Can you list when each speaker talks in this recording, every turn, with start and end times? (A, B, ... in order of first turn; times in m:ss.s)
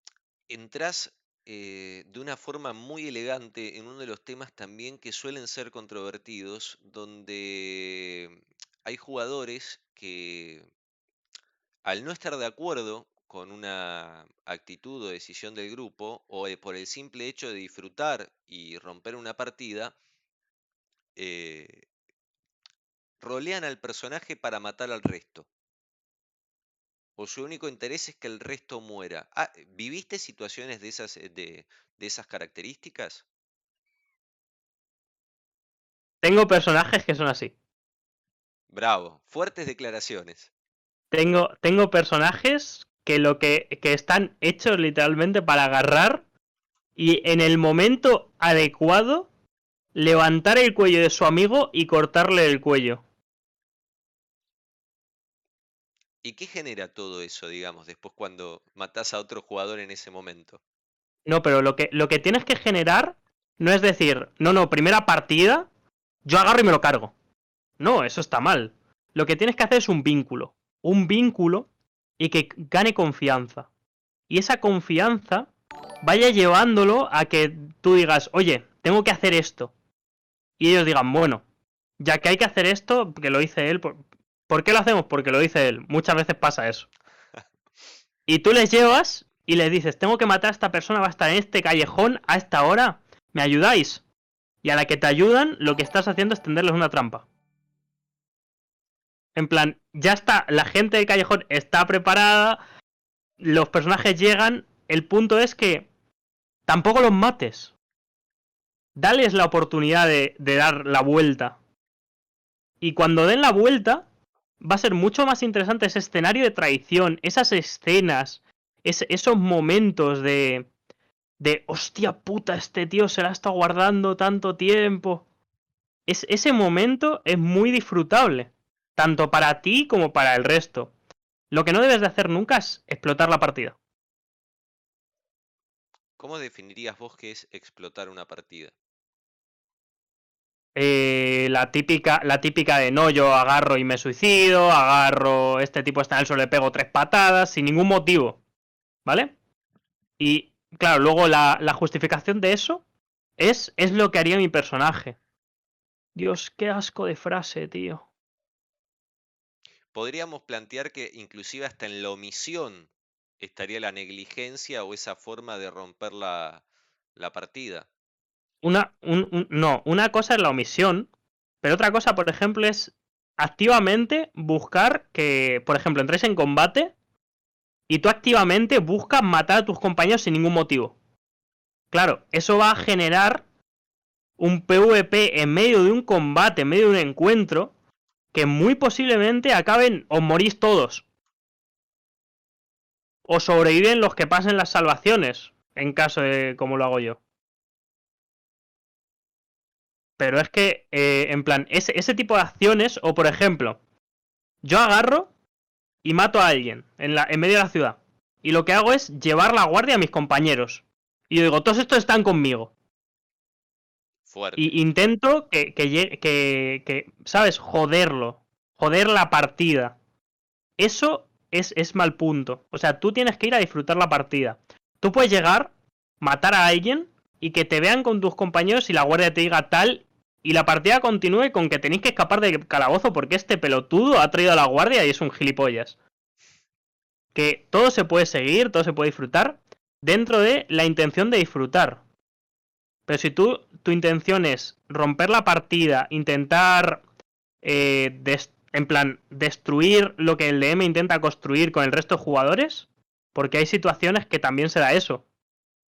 0:00.5-0:10.7 A
0:11.8-0:19.9 A
0:21.2-0:21.9 A
0:23.2-0:25.5 A
0:27.2-0:33.2 A
0:36.2-0:37.5 B
0:38.7-0:40.5 A
0:41.1-0:46.2 B
0:47.0-0:49.3 B
0:49.9-0:53.0 B
0:56.2-1:00.6 A
1:01.3-1:05.7 B
1:06.2-1:07.1 B
1:07.8-1:11.7 B
1:12.2-1:13.7 B
1:14.3-1:15.5 B
1:16.0-1:19.7 B
1:20.6-1:21.4 B
1:22.0-1:26.9 B
1:28.3-1:34.0 B
1:34.6-1:37.2 B
1:39.4-1:42.6 B
1:43.4-1:45.9 B
1:46.7-1:47.7 B
1:49.0-1:51.6 B
1:52.8-1:54.0 B
1:54.6-2:00.7 B
2:01.4-2:05.2 B
2:06.1-2:10.9 B
2:11.5-2:13.8 B
2:16.2-2:18.7 A
2:20.8-2:28.4 B
2:29.0-2:29.3 B
2:30.2-2:32.8 B
2:33.4-2:35.2 B
2:36.1-2:38.1 B
2:39.9-2:46.6 A
2:47.2-2:47.9 A
2:48.6-2:51.1 B
2:51.6-2:56.9 B
2:57.9-3:00.9 B
3:01.9-3:03.4 B
3:04.4-3:07.7 B
3:08.3-3:11.0 B
3:13.3-3:17.2 B
3:20.2-3:23.8 B
3:24.6-3:25.3 B
3:26.0-3:32.7 B
3:34.3-3:34.8 A
3:34.6-3:40.0 B
3:40.8-3:56.0 B
3:57.3-4:02.0 B
4:03.1-4:07.0 B
4:07.6-4:15.2 B